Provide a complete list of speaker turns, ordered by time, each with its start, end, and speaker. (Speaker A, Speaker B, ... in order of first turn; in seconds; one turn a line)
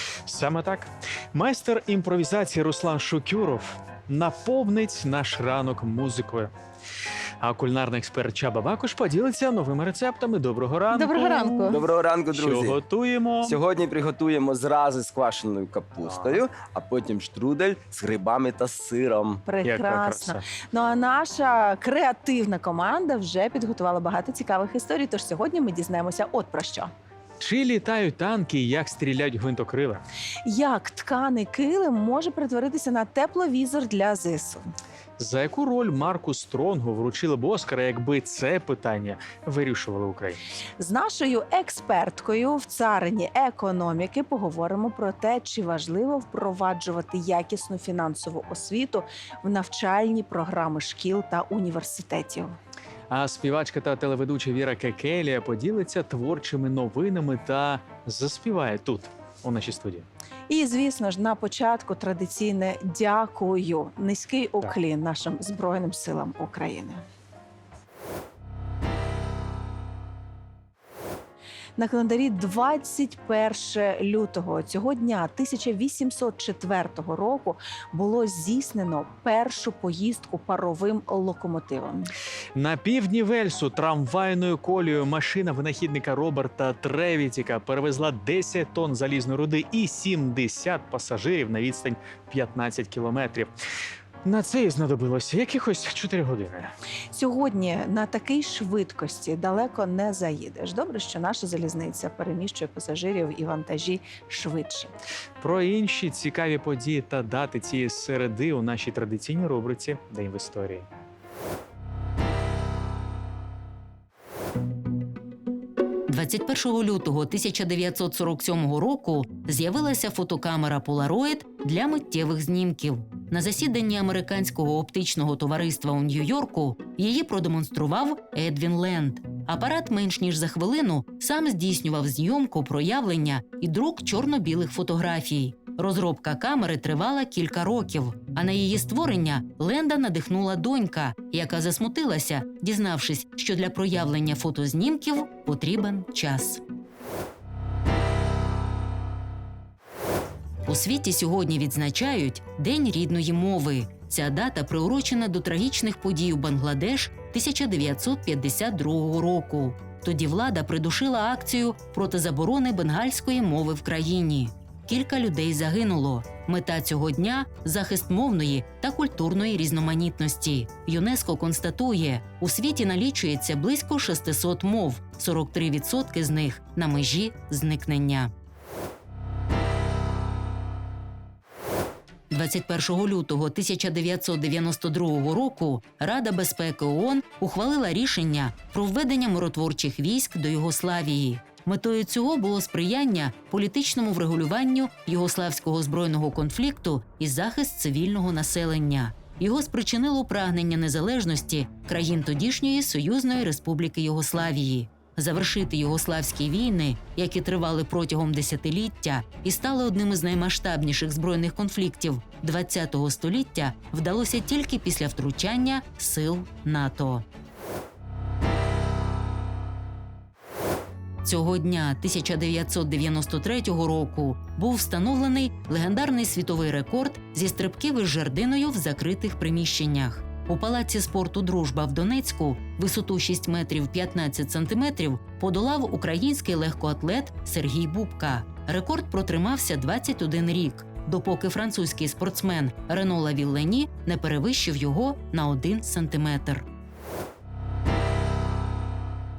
Speaker A: 0.3-6.5
Speaker A: 7.4-11.8
Speaker B: 10.9-11.8
Speaker C: 11.7-12.8
Speaker A: 12.3-13.6
Speaker C: 13.4-19.4
Speaker A: 16.0-16.4
Speaker B: 19.4-26.9
Speaker A: 19.6-20.4
Speaker A: 27.4-30.0
Speaker B: 30.4-34.6
Speaker A: 35.2-40.4
Speaker B: 40.8-52.5
Speaker A: 53.1-60.1
Speaker B: 60.5-67.0
Speaker B: 71.8-82.1
Speaker A: 82.5-93.5
Speaker A: 94.2-96.7
Speaker B: 97.1-104.9
Speaker A: 105.4-110.9
Speaker D: 116.1-146.6
Speaker D: 150.7-178.3
Speaker D: 182.3-217.2
Speaker D: 221.2-246.7